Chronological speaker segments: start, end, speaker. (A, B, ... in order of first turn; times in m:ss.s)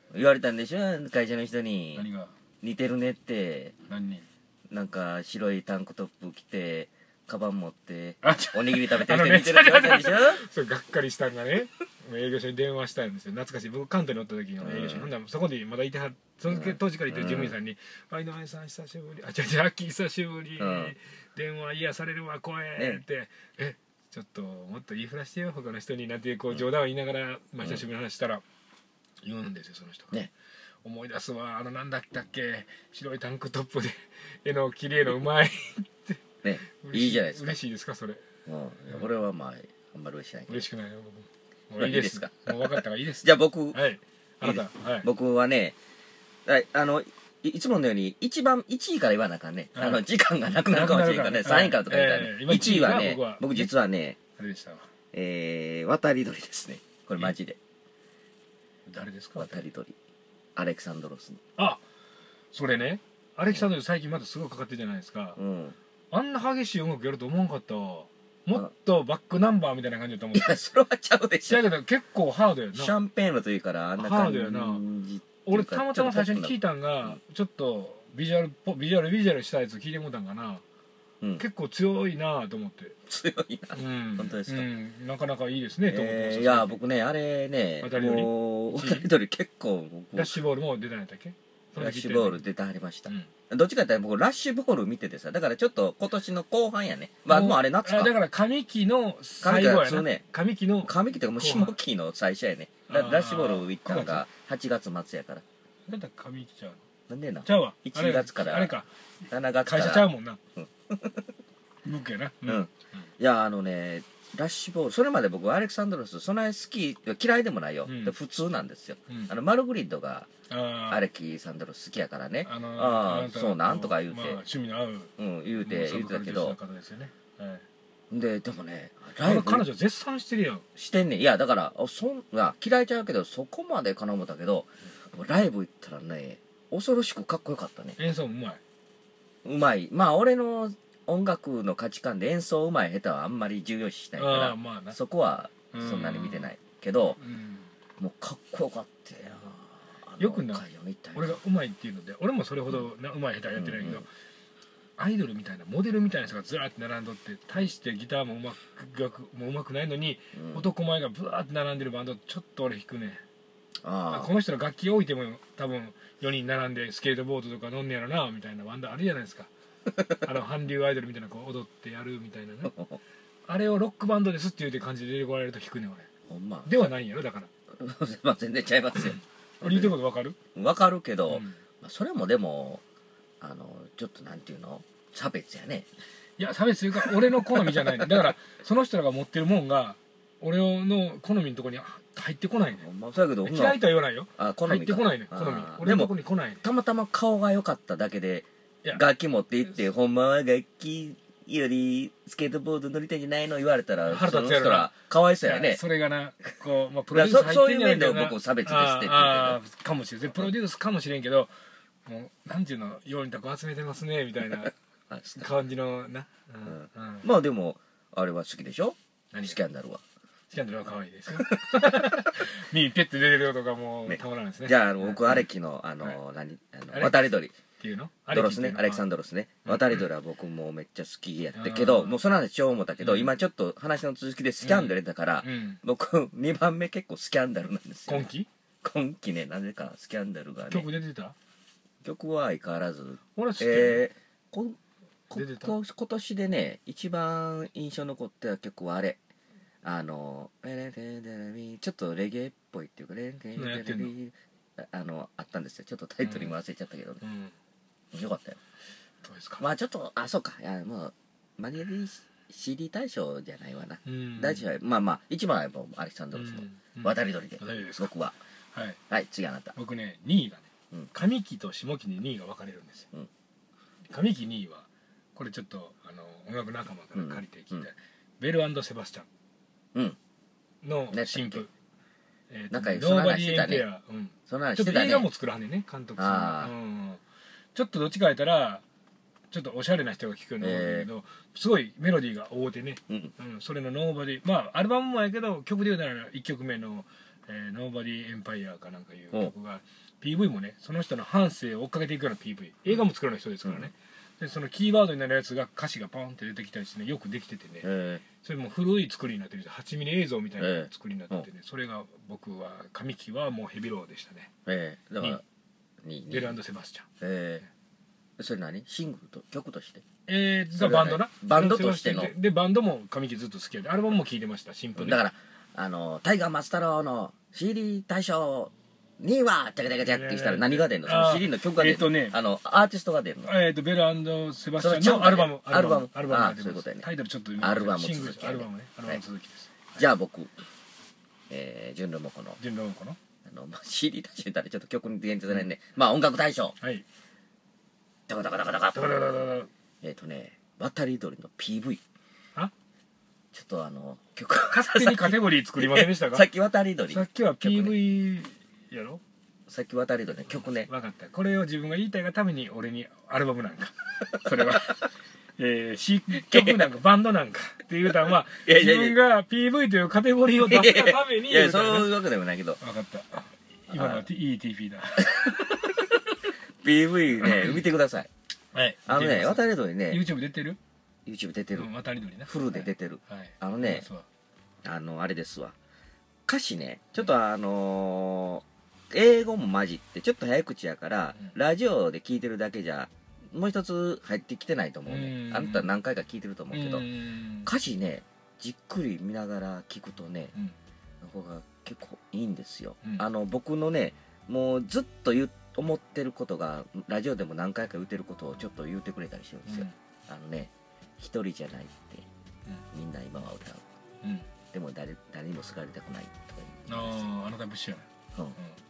0:00.1-0:02.1 A
0:01.9-0:02.3 B
0:02.6-0:03.8 A
0:03.9-0:04.2 B
0:04.7-0:10.4 A
0:08.2-0:28.4 B
0:14.6-0:15.1 A
0:16.5-0:17.6 A
0:20.6-0:20.9 A
0:22.8-0:23.0 A
0:29.2-0:30.2 B
0:30.8-0:38.2 B
0:36.4-0:37.6 A
0:38.5-0:40.7 A
0:40.5-0:45.1 B
0:41.8-0:43.8 A
0:44.4-0:45.8 A
0:46.5-0:54.2 A
0:49.8-0:50.0 B
0:50.7-0:53.7 B
0:54.4-0:54.9 B
0:55.1-0:57.6 A
0:58.9-0:59.6 B
0:59.4-1:00.0 A
1:00.6-1:01.4 A
1:01.6-1:01.8 B
1:02.5-1:05.4 B
1:05.4-1:05.8 A
1:06.1-1:10.5 B
1:10.3-1:11.7 A
1:11.5-1:13.0 B
1:12.7-1:17.2 A
1:14.0-1:14.9 B
1:15.4-1:20.6 B
1:21.4-1:23.0 B
1:23.1-1:24.7 A
1:23.7-1:26.8 B
1:25.9-1:30.4 A
1:27.8-1:29.1 B
1:30.2-1:32.4 B
1:31.8-1:38.1 A
1:37.3-1:41.8 B
1:39.4-1:40.2 A
1:40.8-1:45.4 A
1:42.9-1:44.2 B
1:45.9-1:46.8 B
1:47.1-1:48.8 A
1:47.4-1:48.9 B
1:49.3-1:51.2 A
1:49.6-1:50.4 B
1:51.8-1:52.7 B
1:52.4-2:00.3 A
1:57.9-1:58.2 B
2:00.5-2:01.0 B
2:00.9-2:04.4 A
2:02.4-2:07.6 B
2:05.2-2:06.6 A
2:08.1-2:09.7 A
2:09.2-2:10.6 B
2:10.8-2:18.0 A
2:18.0-2:18.6 B
2:19.4-2:27.2 A
2:24.2-2:25.0 B
2:25.7-2:26.5 B
2:27.2-2:27.7 B
2:28.0-2:31.4 A
2:30.2-2:30.6 B
2:31.2-2:34.1 B
2:33.5-2:34.0 A
2:35.0-2:43.2 B
2:40.3-2:40.7 A
2:43.8-2:44.3 A
2:44.1-2:49.5 B
2:50.2-2:52.7 B
2:52.7-2:53.0 A
2:53.5-2:56.1 B
2:56.3-2:56.9 A
2:56.6-2:57.5 B
2:57.8-3:00.0 A
2:59.0-3:00.4 B
3:00.6-3:02.8 A
3:01.3-3:01.6 B
3:03.4-3:05.9 A
3:06.4-3:12.8 B
3:07.3-3:08.3 A
3:12.7-3:13.8 A
3:13.4-3:16.6 B
3:14.4-3:25.8 A
3:24.1-3:24.9 B
3:25.4-3:31.5 B
3:27.1-3:29.6 A
3:32.1-3:34.7 B
3:35.1-3:35.5 A
3:35.4-3:37.3 B
3:36.7-3:40.0 A
3:39.3-3:39.6 B
3:40.5-3:45.5 B
3:41.4-3:42.2 A
3:44.1-3:47.5 A
3:46.9-3:47.3 B
3:47.8-3:49.0 B
3:48.3-3:58.3 A
3:49.7-3:50.1 B
3:51.6-3:52.2 B
3:53.0-3:53.3 B
3:54.6-3:55.8 B
3:58.1-3:58.5 B
3:58.8-4:00.9 A
4:00.6-4:01.4 B
4:02.0-4:04.8 A
4:03.4-4:04.0 B
4:05.3-4:09.2 A
4:05.3-4:05.8 B
4:09.8-4:17.2 A
4:13.6-4:14.1 B
4:16.2-4:16.5 B
4:17.2-4:17.6 B
4:18.1-4:18.6 A
4:19.2-4:19.6 B
4:19.6-4:28.4 A
4:24.0-4:24.6 B
4:26.3-4:28.1 B
4:28.7-4:29.0 B
4:29.1-4:29.8 A
4:29.8-4:33.1 B
4:34.1-4:39.3 B
4:37.1-4:37.9 A
4:40.8-4:41.7 B
4:41.1-4:41.6 A
4:42.5-4:47.2 B
4:42.7-4:43.9 A
4:44.5-4:45.3 A
4:46.2-4:46.7 A
4:47.8-4:48.8 B
4:49.5-5:14.5 B
4:50.6-4:51.1 A
5:03.6-5:03.9 A
5:07.8-5:08.2 A
5:10.6-5:11.5 A
5:14.7-5:15.4 A
5:16.0-5:16.6 A
5:16.3-5:17.1 B
5:17.2-5:17.6 A
5:18.4-5:20.0 A
5:20.3-5:25.2 B
5:20.8-5:22.3 A
5:25.0-5:33.5 A
5:30.1-5:32.4 B
5:33.5-5:39.9 B
5:34.8-5:37.0 A
5:37.6-5:39.2 A
5:40.0-5:40.5 A
5:41.5-5:42.6 A
5:42.6-5:43.2 B
5:43.4-5:46.8 A
5:46.8-5:47.0 B
5:48.3-5:49.5 A
5:49.0-5:49.7 B
5:50.0-5:52.0 A
5:53.5-5:58.0 A
5:54.7-5:56.5 B
5:57.1-5:59.2 B
5:59.7-6:00.9 A
6:00.8-6:12.1 B
6:04.5-6:04.8 A
6:06.5-6:06.9 A
6:08.6-6:09.2 A
6:10.6-6:12.8 A
6:12.8-6:15.9 B
6:13.9-6:14.3 A
6:15.4-6:15.6 A
6:16.8-6:18.3 A
6:17.3-6:17.8 B
6:18.7-6:20.8 B
6:19.1-6:20.2 A
6:21.3-6:21.9 A
6:21.8-6:24.3 B
6:22.5-6:24.1 A
6:24.8-6:25.8 A
6:26.5-6:37.1 A
6:35.1-6:35.9 B
6:36.7-6:37.7 B
6:37.6-6:40.5 A
6:41.2-6:52.3 A
6:49.7-6:49.9 B
6:52.9-6:53.8 A
6:54.2-6:54.5 B
6:54.7-6:57.3 A
6:56.9-6:58.1 B